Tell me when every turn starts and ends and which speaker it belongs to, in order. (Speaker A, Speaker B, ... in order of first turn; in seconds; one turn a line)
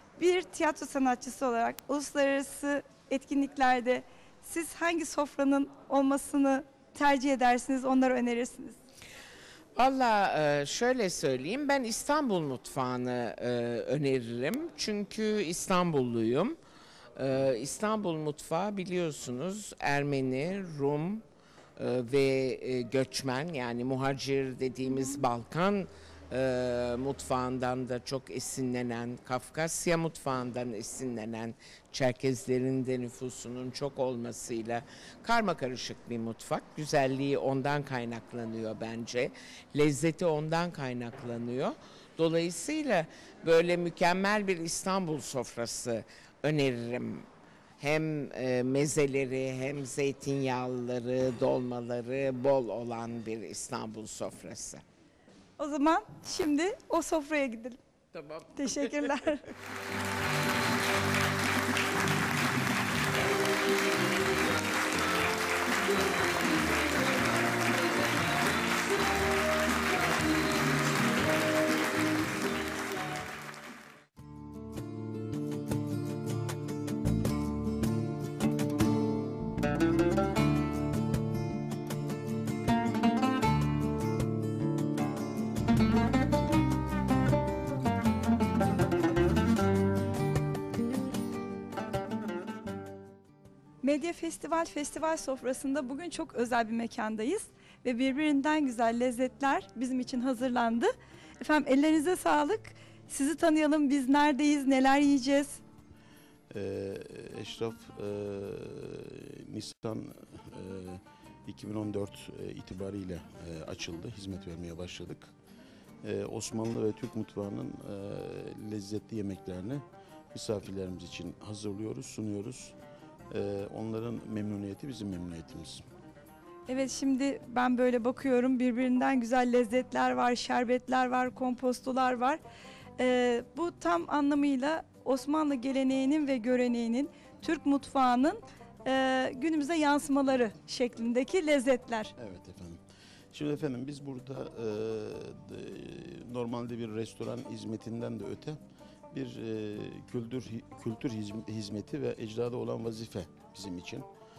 Speaker A: 0.2-8.8
Speaker B: 9.8-16.6
Speaker B: 17.2-21.2
Speaker B: 21.8-47.3
Speaker B: 47.8-54.8
Speaker A: 55.6-57.8
Speaker B: 58.1-58.4
Speaker A: 58.5-59.4
Speaker A: 93.8-105.6
Speaker C: 106.5-115.3
Speaker C: 116.0-122.8
Speaker C: 123.3-125.8
Speaker A: 126.7-132.4
Speaker A: 133.0-142.1
Speaker C: 142.2-142.8
Speaker C: 143.3-148.6
Speaker C: 149.1-154.1